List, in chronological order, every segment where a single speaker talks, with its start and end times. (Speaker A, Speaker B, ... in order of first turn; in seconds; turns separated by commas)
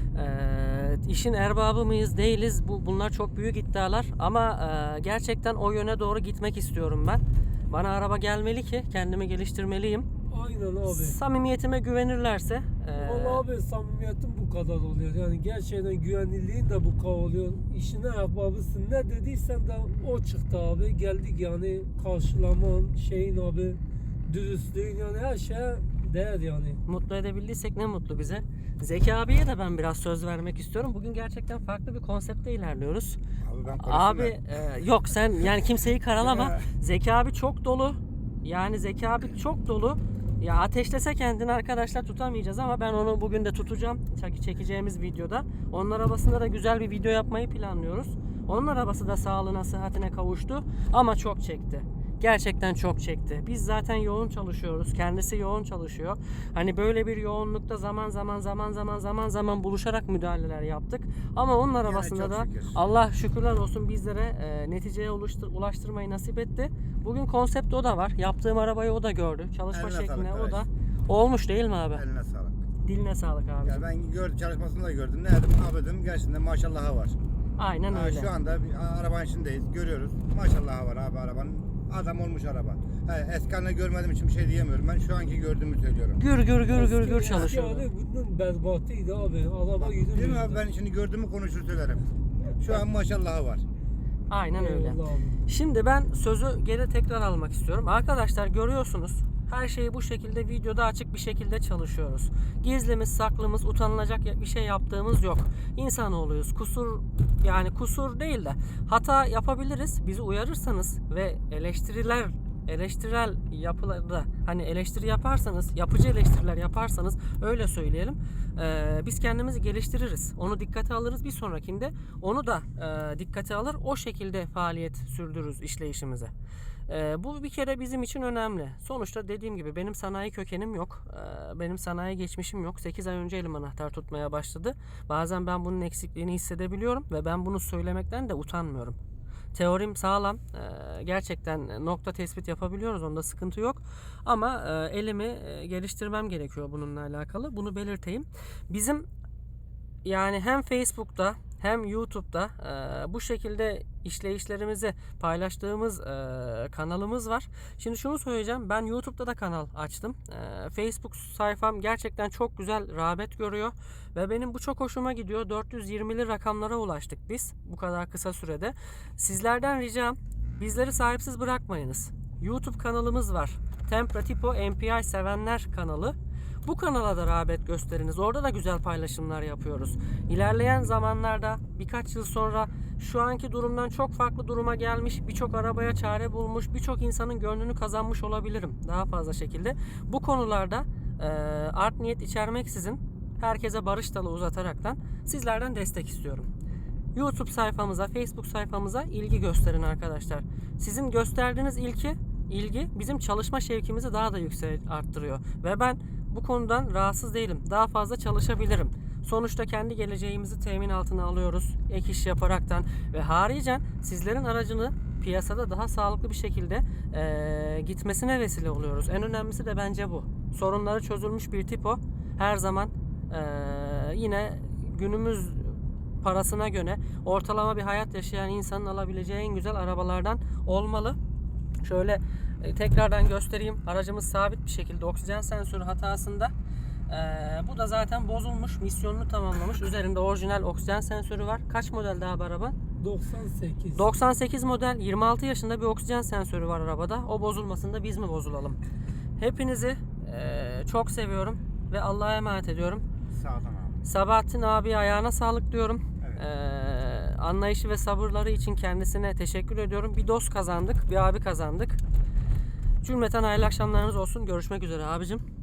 Speaker A: 0.1-10.1, Speaker B: 10.3-11.2, Speaker A: 10.8-13.4, Speaker B: 13.0-26.8, Speaker A: 26.9-33.2, Speaker C: 33.4-34.4, Speaker A: 33.7-72.0, Speaker C: 36.2-36.6, Speaker C: 61.8-62.8, Speaker C: 69.7-70.7, Speaker C: 71.9-72.6, Speaker A: 72.8-73.8, Speaker C: 73.7-77.2, Speaker A: 77.6-78.3, Speaker C: 77.9-86.2, Speaker A: 86.2-87.9, Speaker B: 86.7-90.6, Speaker C: 87.3-87.6, Speaker C: 89.8-93.7, Speaker A: 94.3-126.3, Speaker B: 94.5-95.4, Speaker A: 126.9-139.0, Speaker A: 139.5-149.1, Speaker A: 150.0-196.5, Speaker A: 197.2-231.2, Speaker A: 231.8-236.5, Speaker A: 237.1-242.8, Speaker B: 243.0-244.1, Speaker A: 243.9-248.8, Speaker A: 249.4-253.0, Speaker C: 253.3-254.0, Speaker A: 254.0-262.0, Speaker A: 263.0-265.4